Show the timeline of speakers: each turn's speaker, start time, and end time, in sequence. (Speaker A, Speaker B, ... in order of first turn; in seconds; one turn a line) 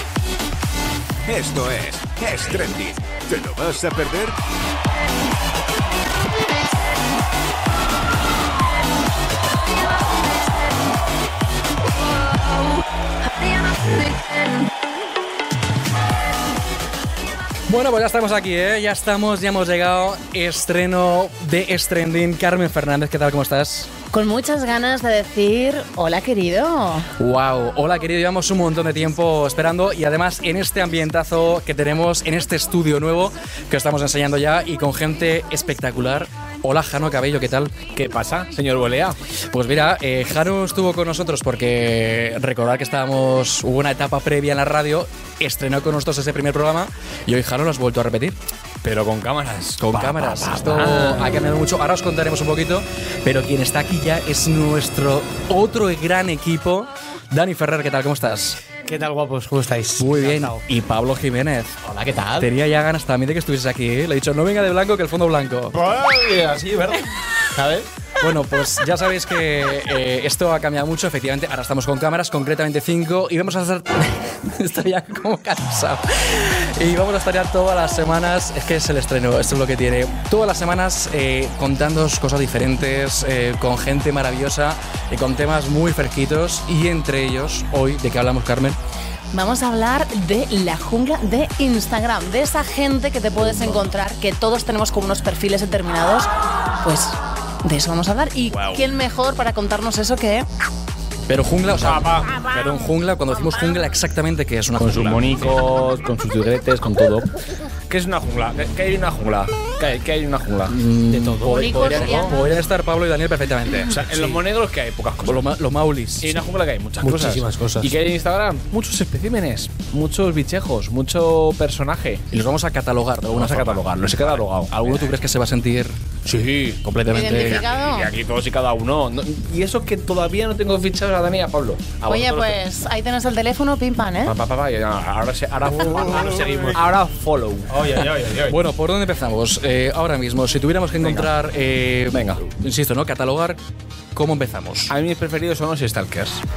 Speaker A: 1.3-4.3
Speaker A: 13.3-14.7
Speaker B: 17.7-23.9
Speaker C: 24.1-27.1
Speaker B: 27.2-37.7
Speaker D: 38.0-39.2
Speaker B: 39.5-48.4
Speaker D: 48.8-51.3
Speaker B: 49.8-58.6
Speaker E: 58.9-60.6
Speaker B: 60.0-61.8
Speaker F: 61.8-62.5
Speaker B: 62.4-65.8
Speaker F: 65.7-67.9
Speaker B: 68.2-88.8
Speaker C: 89.3-100.5
Speaker D: 93.4-93.8
Speaker B: 98.5-98.8
Speaker B: 101.3-105.6
Speaker D: 101.8-102.3
Speaker C: 103.5-103.8
Speaker D: 104.8-107.3
Speaker D: 107.9-110.8
Speaker B: 110.7-114.0
Speaker E: 111.1-111.8
Speaker C: 111.4-112.5
Speaker D: 111.5-112.3
Speaker D: 113.9-115.4
Speaker B: 115.3-116.4
Speaker D: 116.2-122.2
Speaker E: 117.0-118.0
Speaker B: 122.3-125.9
Speaker D: 123.3-125.2
Speaker D: 126.3-132.6
Speaker B: 126.8-127.7
Speaker C: 127.1-128.1
Speaker C: 132.1-134.4
Speaker D: 134.2-137.7
Speaker F: 135.8-136.8
Speaker F: 137.7-138.6
Speaker B: 138.0-143.6
Speaker D: 141.0-141.3
Speaker D: 142.1-142.4
Speaker B: 144.1-144.9
Speaker D: 144.9-146.4